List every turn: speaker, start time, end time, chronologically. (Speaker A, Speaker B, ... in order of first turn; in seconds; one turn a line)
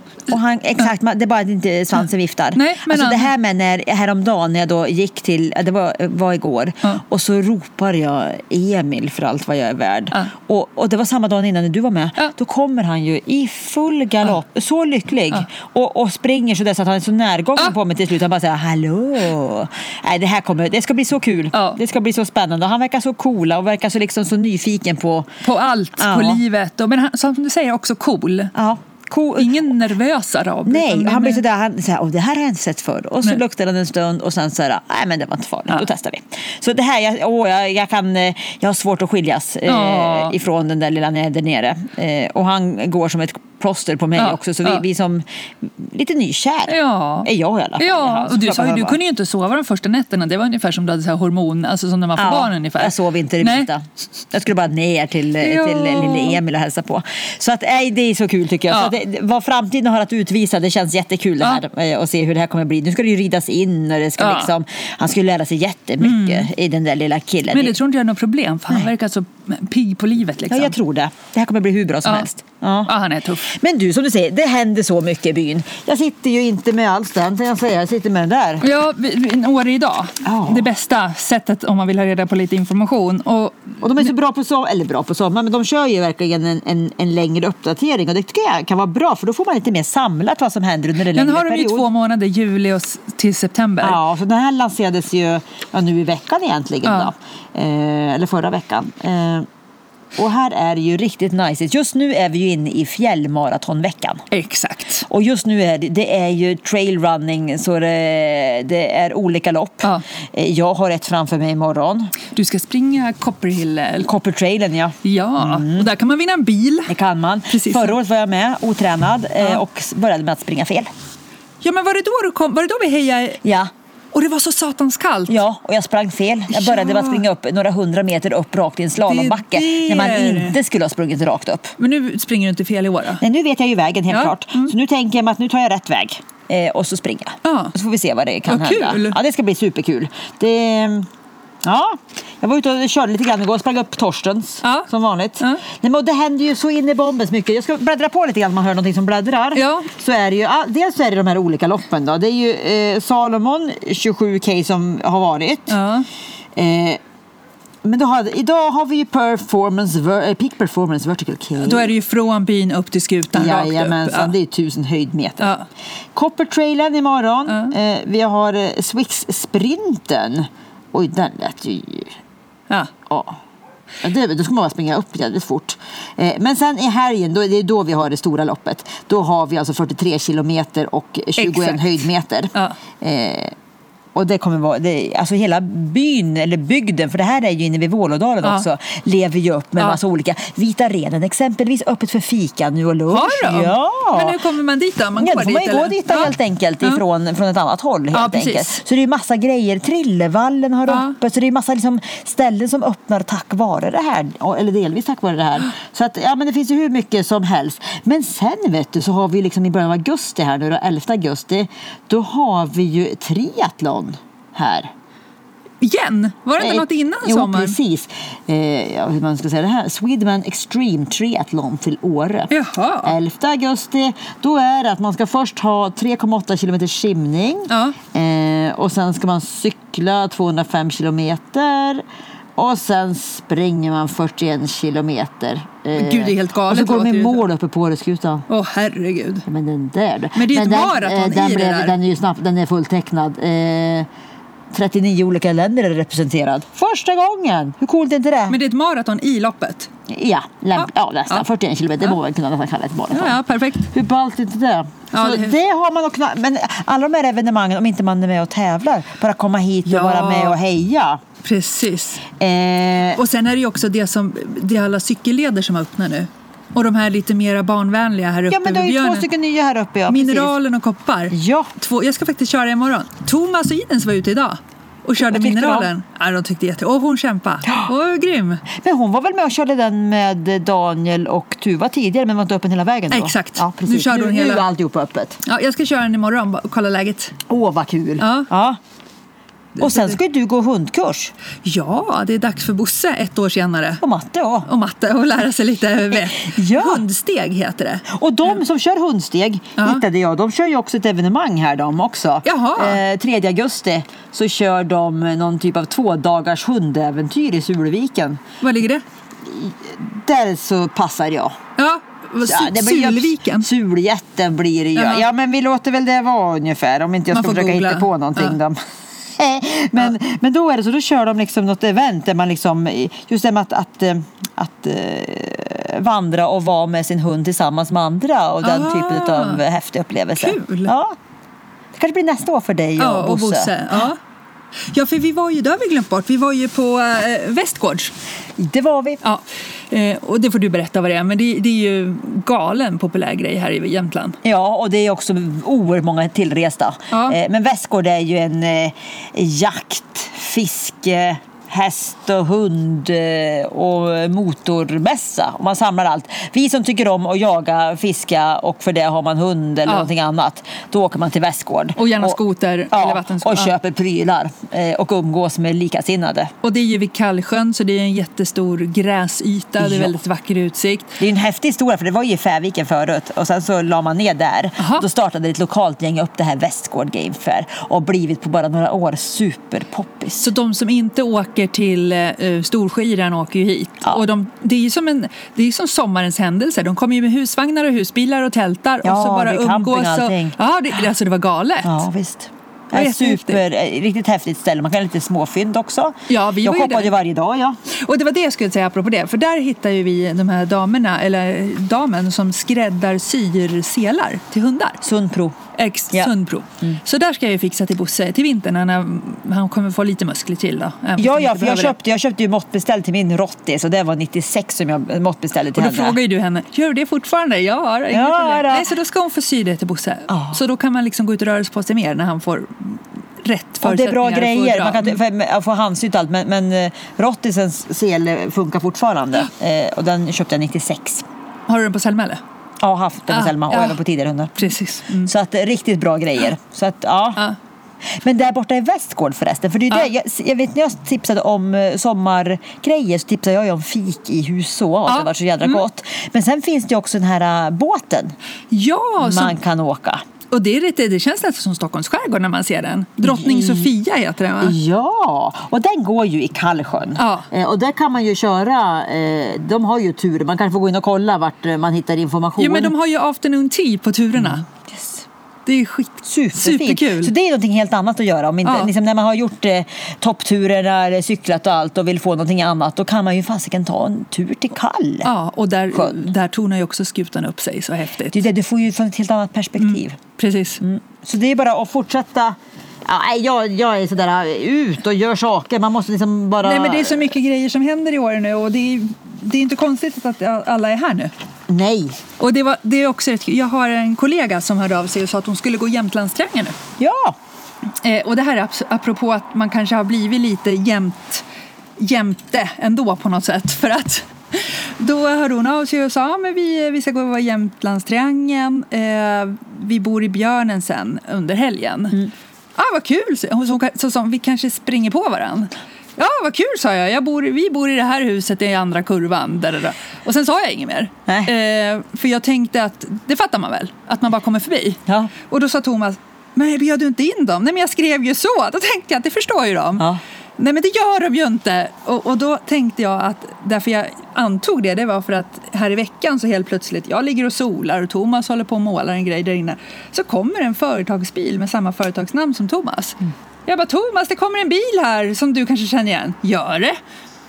Speaker A: 0.3-25.3
Speaker B: 2.5-3.3
Speaker B: 21.5-21.8
Speaker B: 25.4-28.5
Speaker A: 26.0-26.4
Speaker A: 28.6-29.7
Speaker B: 29.4-31.4
Speaker A: 30.7-49.0
Speaker B: 39.7-40.4
Speaker B: 44.2-44.8
Speaker B: 46.7-53.7
Speaker A: 52.2-67.8
Speaker B: 55.4-56.4
Speaker B: 64.2-64.5
Speaker B: 66.0-66.5
Speaker B: 67.5-70.8
Speaker A: 70.5-72.9
Speaker B: 72.9-73.5
Speaker A: 73.5-78.6
Speaker B: 78.6-84.1
Speaker A: 80.2-80.7
Speaker A: 83.8-91.9
Speaker B: 91.1-94.0
Speaker A: 93.8-99.5
Speaker B: 96.8-97.1
Speaker A: 100.2-104.2
Speaker B: 104.3-105.1
Speaker A: 105.1-112.1
Speaker B: 112.3-114.1
Speaker A: 114.0-115.9
Speaker B: 115.0-117.0
Speaker A: 116.9-120.9
Speaker B: 117.5-118.0
Speaker B: 121.6-123.4
Speaker A: 123.4-123.7
Speaker B: 124.1-125.4
Speaker A: 125.3-131.7
Speaker B: 126.5-127.2
Speaker B: 129.0-130.6
Speaker B: 131.8-133.2
Speaker A: 133.2-141.1
Speaker B: 134.1-134.7
Speaker B: 137.4-137.7
Speaker B: 138.5-139.2
Speaker A: 141.6-155.8
Speaker B: 144.6-145.6
Speaker B: 149.6-149.9
Speaker B: 155.7-156.1
Speaker A: 156.6-157.0
Speaker A: 157.8-161.9
Speaker B: 161.6-164.3
Speaker A: 163.3-165.5
Speaker B: 165.4-165.7
Speaker A: 166.1-172.2
Speaker B: 167.5-167.7
Speaker A: 173.1-173.4
Speaker A: 174.0-183.6
Speaker B: 181.4-182.0
Speaker A: 184.1-194.4
Speaker B: 193.1-197.0
Speaker A: 195.2-214.9
Speaker B: 198.1-198.8
Speaker B: 200.9-201.2
Speaker B: 215.8-217.8
Speaker A: 216.6-222.5
Speaker B: 222.5-223.1
Speaker A: 223.0-232.1
Speaker B: 227.7-228.0
Speaker A: 232.6-238.4
Speaker B: 235.9-237.4
Speaker B: 238.5-239.5
Speaker A: 239.5-244.1
Speaker B: 240.3-242.0
Speaker A: 244.7-248.6
Speaker B: 248.5-249.9
Speaker A: 250.1-261.2
Speaker B: 250.8-251.4
Speaker B: 253.1-253.9
Speaker B: 255.1-255.6
Speaker B: 259.9-260.6
Speaker B: 261.4-262.2
Speaker A: 262.4-263.2
Speaker B: 263.1-269.3
Speaker A: 268.5-270.6
Speaker B: 270.1-278.6
Speaker A: 271.3-271.7
Speaker A: 275.2-275.9
Speaker A: 278.7-285.4
Speaker B: 283.1-284.6
Speaker B: 285.4-287.4
Speaker A: 287.5-288.8
Speaker B: 288.2-288.5
Speaker B: 289.8-290.2
Speaker A: 289.8-291.3
Speaker B: 291.6-294.0
Speaker A: 294.0-294.7
Speaker B: 294.6-298.1
Speaker A: 296.1-297.0
Speaker A: 298.1-308.4
Speaker B: 299.8-300.0
Speaker B: 302.4-303.0
Speaker B: 308.6-309.0
Speaker A: 309.4-311.6
Speaker B: 311.8-313.7
Speaker A: 312.4-331.1
Speaker B: 314.9-315.2
Speaker B: 317.3-318.6
Speaker B: 328.6-329.6
Speaker B: 330.4-330.9
Speaker A: 331.9-333.7
Speaker B: 333.0-334.2
Speaker B: 334.9-338.1
Speaker A: 338.6-339.2
Speaker B: 339.2-344.4
Speaker A: 344.4-362.4
Speaker B: 347.1-347.4
Speaker B: 362.0-363.7
Speaker A: 362.9-366.5
Speaker B: 366.6-371.2
Speaker A: 369.8-370.2
Speaker A: 371.2-380.5
Speaker B: 374.8-375.1
Speaker B: 380.4-392.0
Speaker A: 389.0-390.6
Speaker A: 391.8-397.8
Speaker B: 392.9-393.6
Speaker B: 396.3-397.1
Speaker B: 397.9-405.0
Speaker A: 405.0-405.6
Speaker B: 405.8-411.9
Speaker A: 406.1-407.0
Speaker A: 411.2-416.2
Speaker B: 415.7-425.2
Speaker A: 418.1-418.9
Speaker A: 420.3-420.6
Speaker A: 423.8-431.3
Speaker B: 431.7-432.4
Speaker A: 432.8-434.7
Speaker B: 433.3-434.0
Speaker B: 434.6-435.3
Speaker A: 435.2-437.4
Speaker A: 438.1-448.4
Speaker B: 445.1-445.8
Speaker B: 448.7-449.6
Speaker A: 449.2-450.2
Speaker B: 450.5-454.8
Speaker A: 453.2-453.9
Speaker A: 454.6-462.9
Speaker B: 457.2-457.5
Speaker B: 462.6-464.6
Speaker A: 464.4-465.2
Speaker B: 465.6-467.3
Speaker A: 466.2-475.3
Speaker B: 468.6-468.9
Speaker B: 475.2-478.4
Speaker A: 475.9-476.3
Speaker A: 478.3-480.2
Speaker B: 479.8-480.8
Speaker A: 480.8-487.4
Speaker B: 486.6-491.3
Speaker A: 491.7-492.2
Speaker B: 492.4-496.8
Speaker A: 497.0-497.4
Speaker B: 498.0-501.4
Speaker B: 502.0-530.0
Speaker B: 530.6-547.0